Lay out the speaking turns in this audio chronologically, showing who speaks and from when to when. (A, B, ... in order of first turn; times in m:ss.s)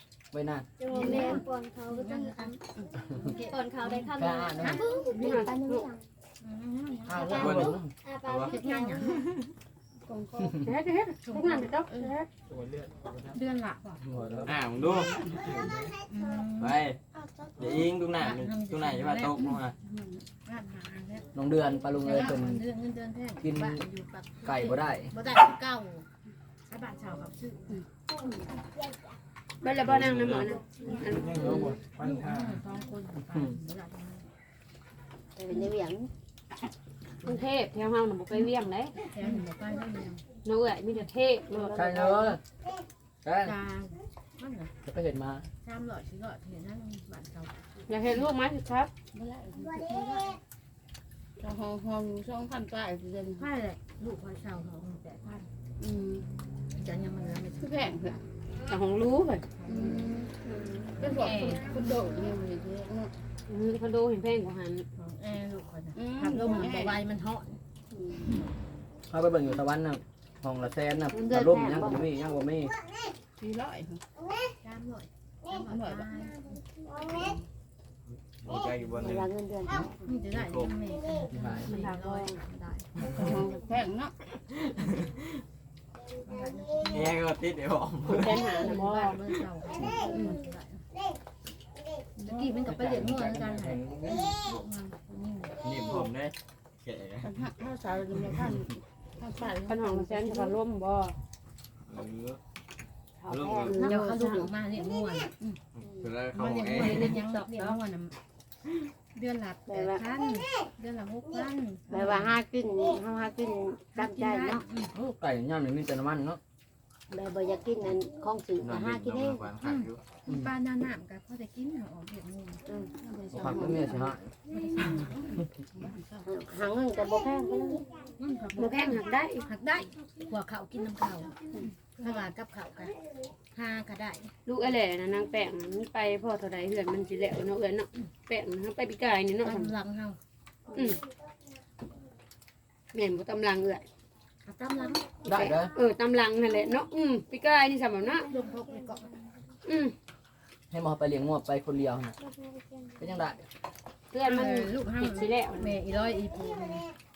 0:00.3-0:00.7 A
0:00.8-0:02.5 B
0:00.9-0:05.3 C
0:03.5-0:05.8 B
0:04.0-0:04.9 A
0:05.2-0:05.9 D
0:05.2-0:05.6 E
0:06.4-0:07.7 C
0:07.1-0:07.9 A
0:07.4-0:08.6 F
0:08.0-0:09.1 B
0:08.4-0:09.3 C
0:10.1-0:10.7 G
0:10.6-0:12.3 D
0:11.2-0:11.7 C
0:11.8-0:12.1 G
0:12.5-0:13.4 H
0:13.3-0:14.0 C
0:14.2-0:15.9 H
0:14.4-0:15.4 F
0:15.1-0:15.5 G
0:16.1-0:16.8 C
0:16.6-0:17.0 F
0:17.6-0:19.7 F
0:18.2-0:19.6 C
0:19.8-0:20.2 G
0:20.4-0:21.3 C
0:21.3-0:22.6 A
0:22.0-0:26.0 C
0:23.4-0:23.8 A
0:24.4-0:25.1 A
0:26.6-0:27.8 C
0:29.6-0:31.7 D
0:29.8-0:30.6 F
0:31.0-0:32.6 H
0:31.4-0:34.2 C
0:33.3-0:33.6 A
0:35.4-0:36.1 E
0:37.2-0:38.9 D
0:39.0-0:40.2 C
0:40.4-0:41.8 D
0:41.5-0:42.4 E
0:41.7-0:42.4 A
0:43.2-0:43.5 A
0:43.4-0:44.7 C
0:44.8-0:45.5 A
0:45.6-0:48.1 C
0:47.9-0:48.9 D
0:49.1-0:49.8 G
0:49.8-0:50.4 C
0:51.4-0:53.5 G
0:53.3-0:55.5 C
0:55.8-0:56.2 G
0:56.7-0:58.0 C
0:57.6-0:58.2 G
0:58.7-0:59.5 D
0:59.6-1:00.1 C
0:59.6-1:00.3 G
1:00.5-1:00.9 D
1:01.0-1:01.9 C
1:01.0-1:03.1 G
1:03.5-1:04.8 D
1:05.0-1:07.6 C
1:05.9-1:07.0 G
1:07.9-1:08.2 G
1:09.1-1:12.8 A
1:11.1-1:12.0 E
1:13.4-1:14.0 G
1:14.6-1:16.6 C
1:15.6-1:16.1 G
1:17.1-1:17.4 G
1:18.2-1:19.3 F
1:19.0-1:19.9 E
1:20.0-1:23.0 C
1:20.3-1:20.8 F
1:21.3-1:21.8 A
1:21.6-1:22.4 D
1:23.0-1:24.1 G
1:24.7-1:25.2 F
1:26.2-1:27.2 C
1:26.9-1:28.7 F
1:28.1-1:29.2 D
1:28.2-1:30.8 C
1:29.9-1:30.4 G
1:32.2-1:32.6 G
1:32.2-1:35.7 C
1:32.6-1:34.3 H
1:35.6-1:37.4 F
1:37.2-1:40.5 G
1:39.5-1:41.1 D
1:41.9-1:42.4 F
1:43.2-1:44.3 E
1:43.3-1:43.9 F
1:43.6-1:44.5 D
1:43.7-1:45.3 C
1:45.8-1:47.2 F
1:46.3-1:48.1 C
1:46.8-1:47.8 E
1:49.1-1:52.4 C
1:49.7-1:50.0 E
1:51.9-1:54.6 E
1:53.9-1:54.9 C
1:54.9-1:56.4 A
1:57.1-1:59.5 E
1:58.6-2:00.0 F
1:59.6-2:02.6 C
2:02.6-2:02.9 E
2:03.0-2:04.1 G
2:03.3-2:04.3 A
2:04.5-2:05.4 C
2:05.0-2:06.3 G
2:06.2-2:07.9 E
2:08.2-2:11.3 C
2:08.6-2:09.4 D
2:11.6-2:11.9 G
2:12.0-2:12.9 C
2:13.5-2:14.3 C
2:14.4-2:19.7 D
2:19.4-2:20.2 C
2:20.7-2:21.0 D
2:22.9-2:23.8 D
2:24.4-2:25.4 C
2:25.2-2:25.7 A
2:25.3-2:28.2 D
2:28.2-2:29.1 C
2:29.6-2:29.9 D
2:30.7-2:32.2 A
2:33.0-2:33.4 A
2:34.1-2:35.8 D
2:34.2-2:36.9 C